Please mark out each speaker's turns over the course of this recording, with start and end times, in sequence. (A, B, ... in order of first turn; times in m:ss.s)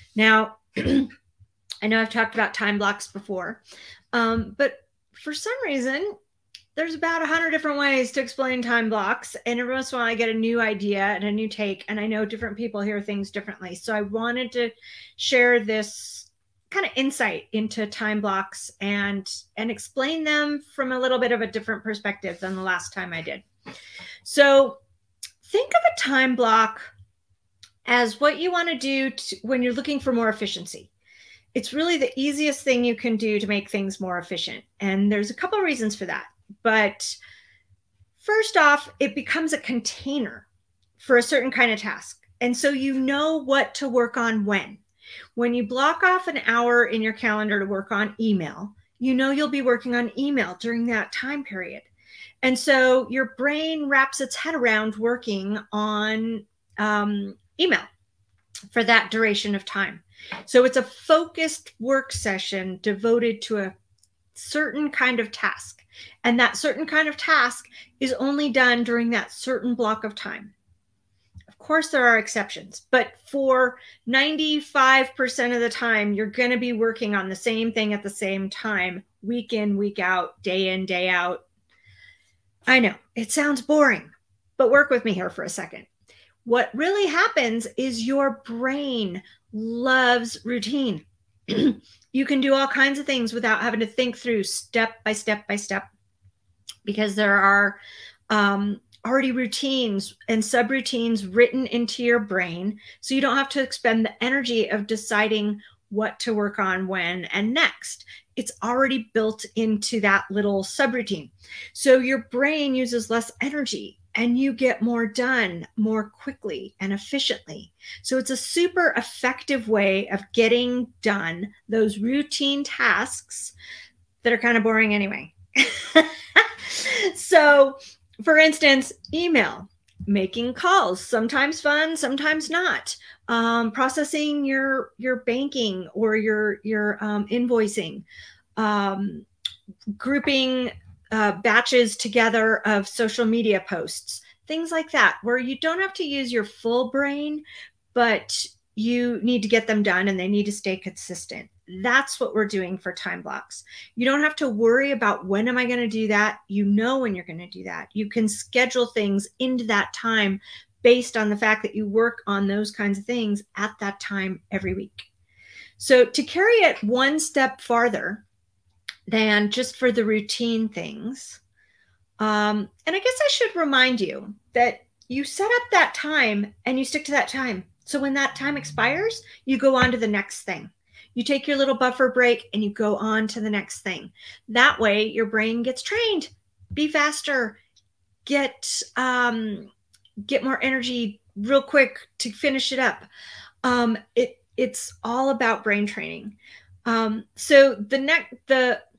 0:00.2-0:01.1 A
0:01.8-0:03.6 A
0:04.1-0:06.1 A
0:06.7-0:23.4 A
0:24.2-0:24.8 A
0:25.4-0:26.8 A
0:27.8-0:30.9 A
0:31.5-0:37.2 A
0:38.2-0:40.5 A
0:41.0-0:44.8 A
0:45.4-0:51.9 A
0:52.4-0:57.9 A
0:58.7-1:03.7 A
1:04.3-1:10.5 A
1:11.5-1:21.4 A
1:22.7-1:25.9 A
1:26.4-1:35.9 A
1:36.8-2:03.5 A
2:04.2-2:18.0 A
2:18.6-2:19.2 A
2:20.0-2:27.4 A
2:27.9-2:45.1 A
2:45.8-2:48.2 A
2:49.1-2:51.4 A
2:52.2-3:07.6 A
3:08.2-3:09.7 A
3:10.2-3:13.1 A
3:13.6-3:18.8 A